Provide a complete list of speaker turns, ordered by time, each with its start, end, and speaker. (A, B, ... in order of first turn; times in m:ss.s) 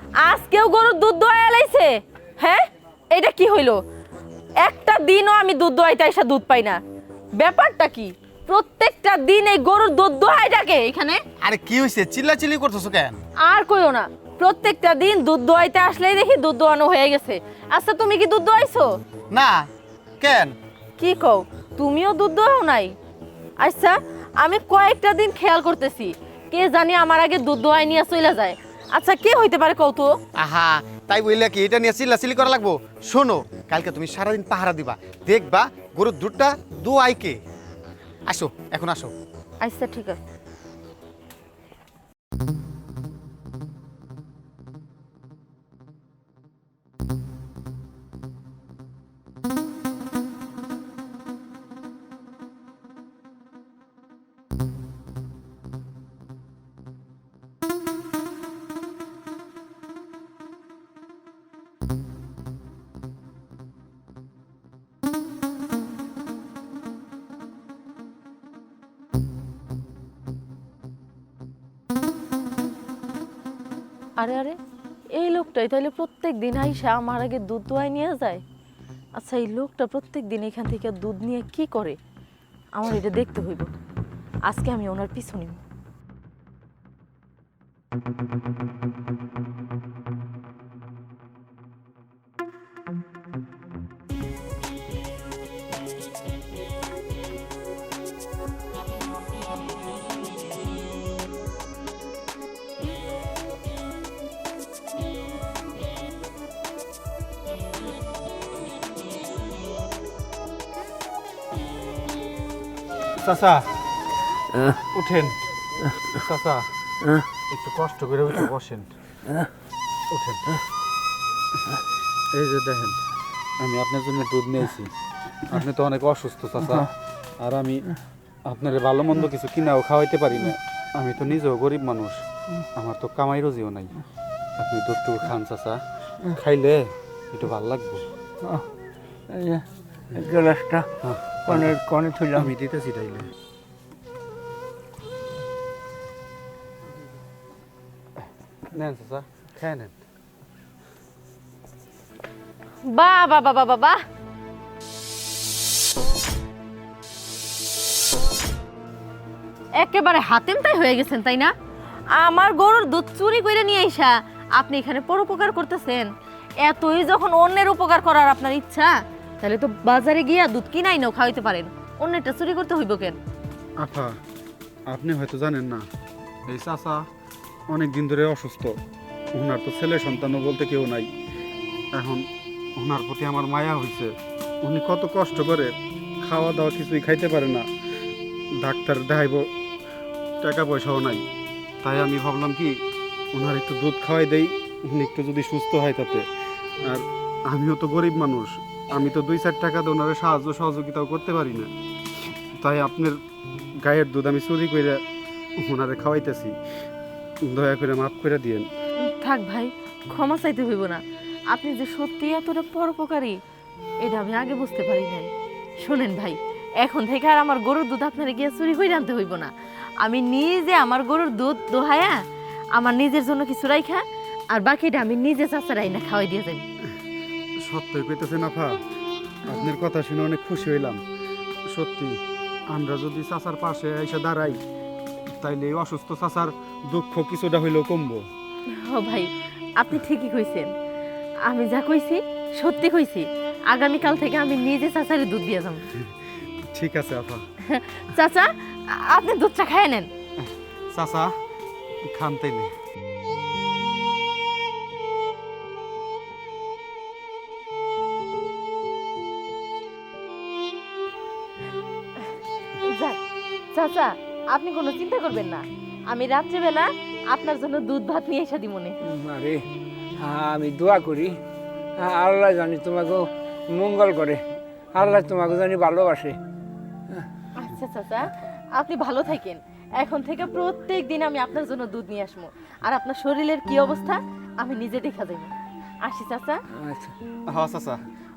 0:00.2-0:03.8 A
0:04.6-0:06.8 A
0:07.4-0:11.2 A
0:11.4-0:13.2 B
0:13.4-0:18.9 A
0:20.2-0:20.5 B
0:21.0-0:22.9 A
0:23.6-0:30.1 A
0:30.4-0:37.4 B
0:38.3-0:39.1 B
0:39.6-0:40.2 A
1:14.2-1:14.6 A
1:15.2-1:18.4 A
1:19.2-1:22.0 A
1:22.7-1:23.7 A
1:24.5-1:25.6 A
1:53.2-1:53.6 C
1:54.8-1:55.4 C
1:56.0-1:56.6 C
1:57.5-1:58.9 C
2:00.1-2:00.4 C
2:02.3-2:03.0 C
2:03.6-2:04.9 C
2:05.4-2:07.8 C
2:08.5-2:12.2 C
2:12.7-2:13.9 C
2:14.6-2:15.8 C
2:16.3-2:18.0 C
2:19.3-2:19.6 D
2:20.1-2:20.8 D
2:21.0-2:21.8 C
2:21.5-2:22.5 D
2:22.3-2:23.2 C
2:28.2-2:29.9 C
2:32.9-2:34.0 A
2:39.8-2:41.5 A
2:42.2-2:46.1 A
2:46.6-2:53.2 A
2:53.8-2:54.1 C
2:54.9-2:55.8 C
2:56.5-2:57.0 C
2:57.7-2:58.7 C
2:59.3-3:01.1 C
3:02.0-3:02.2 C
3:02.8-3:04.1 C
3:04.6-3:05.7 C
3:06.2-3:07.6 C
3:08.6-3:09.5 C
3:10.4-3:11.2 C
3:11.8-3:12.8 C
3:13.3-3:16.2 C
3:16.8-3:21.7 C
3:22.6-3:23.2 C
3:23.8-3:25.0 C
3:25.6-3:26.5 C
3:27.4-3:28.6 C
3:29.0-3:33.4 A
3:34.0-3:35.3 A
3:35.8-3:39.5 A
3:40.0-3:42.2 A
3:42.8-3:46.6 A
3:47.6-3:48.8 C
3:49.4-3:51.0 C
3:51.7-3:52.2 C
3:52.7-3:54.6 C
3:55.3-3:58.2 C
3:58.7-4:00.7 A
4:01.5-4:05.8 A
4:06.7-4:07.4 C
4:07.7-4:10.1 A
4:10.4-4:11.3 C
4:12.1-4:12.7 C
4:22.9-4:23.2 A
4:23.7-4:29.0 A
4:29.0-4:29.6 D
4:30.2-4:31.3 D
4:32.0-4:34.4 D
4:34.9-4:36.4 D
4:37.6-4:45.5 A
4:46.0-4:46.6 A
4:46.8-4:47.1 D
4:47.5-4:48.0 C